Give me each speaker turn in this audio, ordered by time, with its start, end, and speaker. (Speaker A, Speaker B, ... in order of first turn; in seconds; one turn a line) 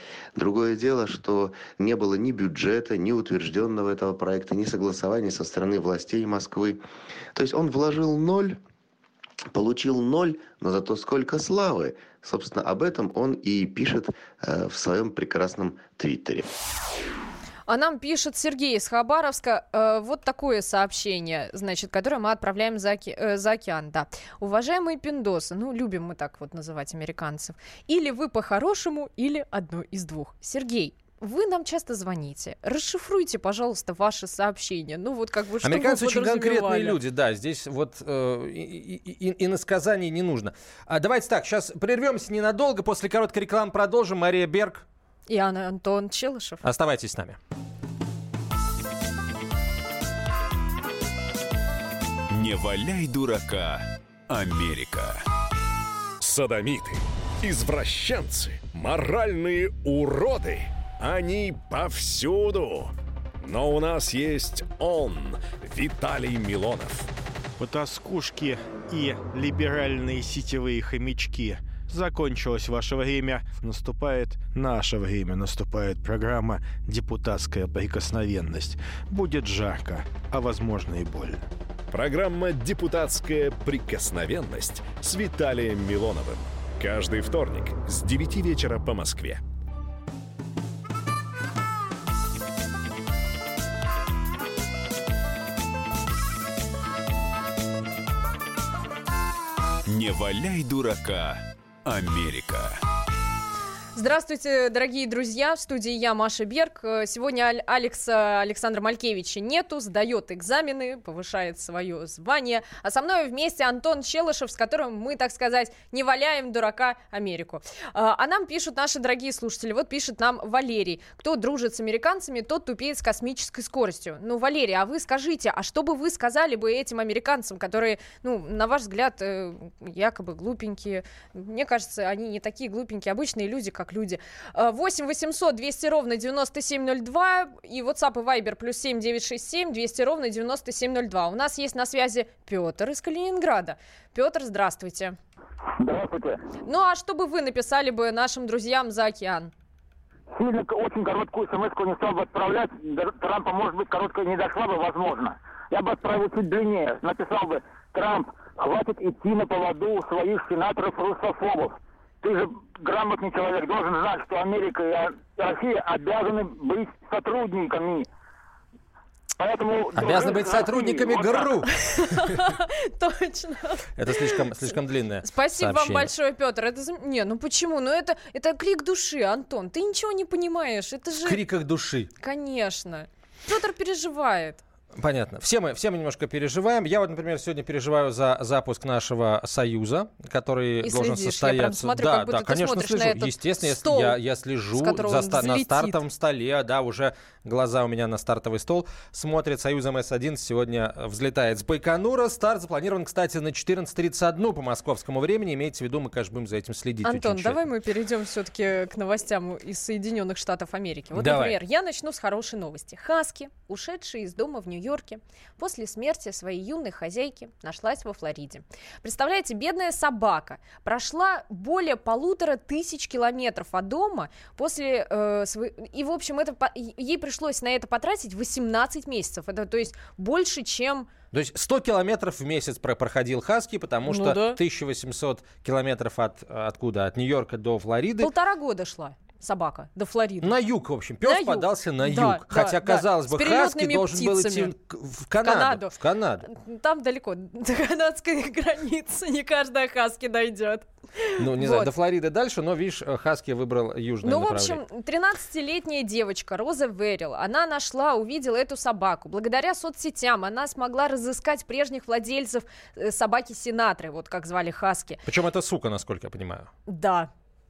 Speaker A: 0.3-6.8
Speaker A: 7.3-8.6
Speaker A: 9.5-16.5
Speaker B: 17.7-37.0
Speaker C: 35.6-44.8
Speaker B: 45.3-46.6
Speaker C: 46.6-47.4
Speaker D: 52.3-55.2
Speaker E: 56.2-67.1
Speaker F: 67.6-81.4
Speaker E: 81.9-89.4
Speaker D: 99.9-102.8
Speaker B: 104.0-145.2
Speaker G: 145.8-146.4
Speaker B: 146.6-149.5
Speaker G: 150.3-168.1
Speaker G: 169.4-171.4
Speaker C: 169.9-172.2
Speaker B: 171.9-174.4
Speaker C: 173.9-176.1
Speaker B: 175.2-181.4
Speaker C: 181.2-182.1
Speaker B: 182.2-184.6
Speaker C: 185.0-207.6
Speaker B: 190.8-194.2
Speaker B: 194.7-196.0
Speaker B: 207.0-231.1
Speaker C: 211.1-211.6
Speaker C: 231.3-238.3
Speaker B: 234.1-234.6
Speaker B: 238.2-240.5
Speaker C: 240.4-246.5
Speaker B: 241.2-244.7
Speaker B: 245.4-251.9
Speaker C: 251.4-254.8
Speaker B: 254.2-265.2
Speaker C: 265.2-266.7
Speaker B: 266.9-267.3